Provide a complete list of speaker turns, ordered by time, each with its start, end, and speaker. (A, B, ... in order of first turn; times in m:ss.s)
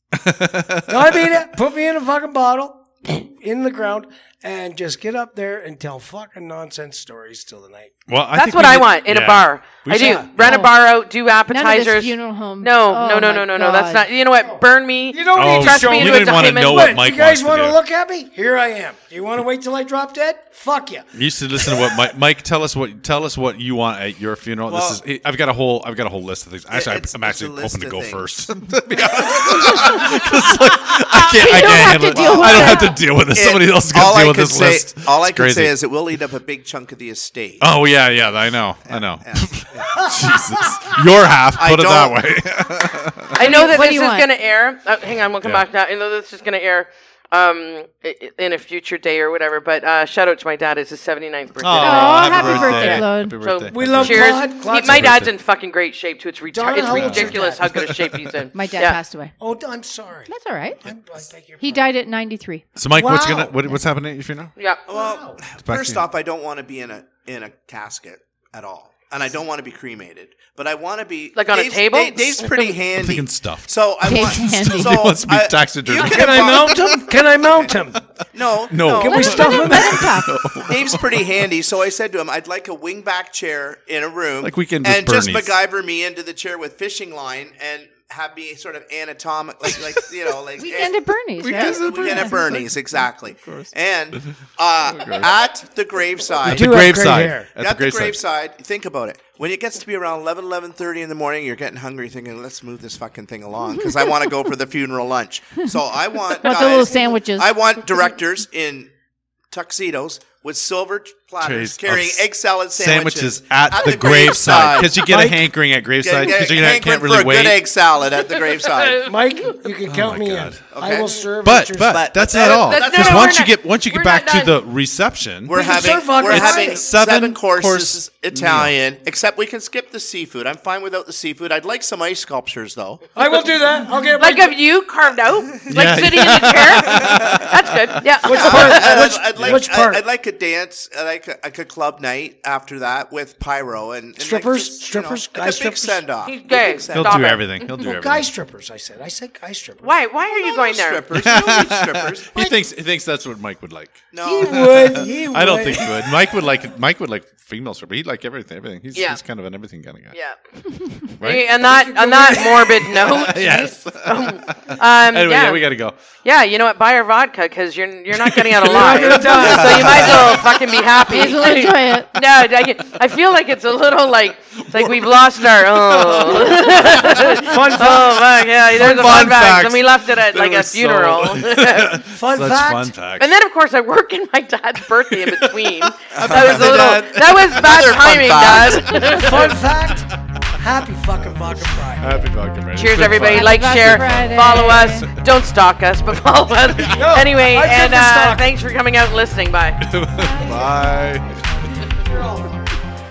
0:00.1-0:01.2 A
0:00.9-0:08.0 B
0:08.1-0:10.3 A
0:08.3-0:16.9 C
0:09.9-0:10.6 B
0:10.4-0:10.8 D
0:11.5-0:14.0 D
0:15.1-0:22.0 B
0:15.3-0:17.8 A
0:21.1-0:35.7 A
0:24.7-0:25.0 E
0:26.7-0:28.3 E
0:29.2-0:30.2 E
0:31.3-0:33.0 D
0:32.3-0:37.7 E
0:37.6-0:43.6 A
0:38.9-0:40.1 E
0:41.6-0:42.2 E
0:43.3-0:44.3 D
0:43.3-0:59.0 C
0:51.6-0:55.3 A
0:51.8-0:53.4 D
0:53.7-0:55.2 B
0:56.5-0:57.7 B
0:56.8-0:58.4 A
0:58.5-0:59.3 D
0:59.4-1:00.3 B
1:00.3-1:00.8 D
1:00.8-1:01.9 B
1:01.6-1:02.7 D
1:02.8-1:04.5 A
1:02.9-1:03.6 B
1:04.6-1:04.8 C
1:04.9-1:16.9 E
1:04.9-1:05.4 B
1:05.6-1:06.0 A
1:11.4-1:12.7 C
1:12.9-1:17.8 A
1:14.0-1:15.1 D
1:15.9-1:18.0 B
1:17.4-1:17.7 E
1:18.3-1:19.8 E
1:18.7-1:21.3 A
1:18.8-1:20.3 B
1:18.9-1:20.6 D
1:20.6-1:37.0 E
1:24.4-1:25.6 A
1:29.7-1:30.0 A
1:30.6-1:31.9 D
1:31.4-1:34.4 A
1:34.9-1:35.3 A
1:36.4-1:38.2 A
1:36.4-1:37.5 B
1:37.6-1:48.9 E
1:46.3-1:47.5 D
1:49.5-1:55.2 E
1:51.4-1:57.6 A
1:55.0-1:55.5 B
1:56.0-1:59.1 E
1:58.2-1:59.5 C
1:59.0-2:02.1 B
1:59.9-2:00.6 A
2:00.6-2:01.3 E
2:01.4-2:08.7 A
2:01.8-2:03.4 E
2:02.3-2:04.6 C
2:05.4-2:13.0 E
2:05.5-2:06.9 B
2:13.1-2:14.6 B
2:14.2-2:19.0 C
2:15.7-2:17.9 A
2:18.2-2:20.0 B
2:18.2-2:27.4 E
2:18.5-2:18.8 A
2:19.3-2:19.6 A
2:24.2-2:26.0 B
2:26.2-2:27.5 C
2:26.9-2:28.3 A
2:27.7-2:30.0 B
2:29.8-2:31.1 C
2:30.3-2:32.5 E
2:31.1-2:40.2 A
2:34.1-2:35.1 E
2:34.2-2:36.1 B
2:38.9-2:39.2 C
2:41.0-2:45.6 C
2:41.2-2:41.5 A
2:41.5-2:43.7 B
2:43.0-2:46.0 A
2:46.2-3:02.0 C
2:48.1-2:50.3 A
2:48.6-2:50.5 B
2:49.3-2:49.9 E
2:51.0-2:52.1 D
2:54.7-2:55.3 A
2:56.1-2:57.6 A
2:56.2-2:58.3 B
2:58.7-3:03.3 A
3:02.1-3:02.9 B
3:03.2-3:09.6 C
3:05.1-3:07.7 A
3:06.2-3:09.2 E
3:09.1-3:12.3 B
3:12.0-3:15.0 A
3:12.7-3:19.8 C
3:13.2-3:15.1 D
3:16.1-3:17.1 A
3:16.9-3:18.5 B
3:19.8-3:21.4 A
3:20.1-3:20.8 D
3:21.8-3:22.8 B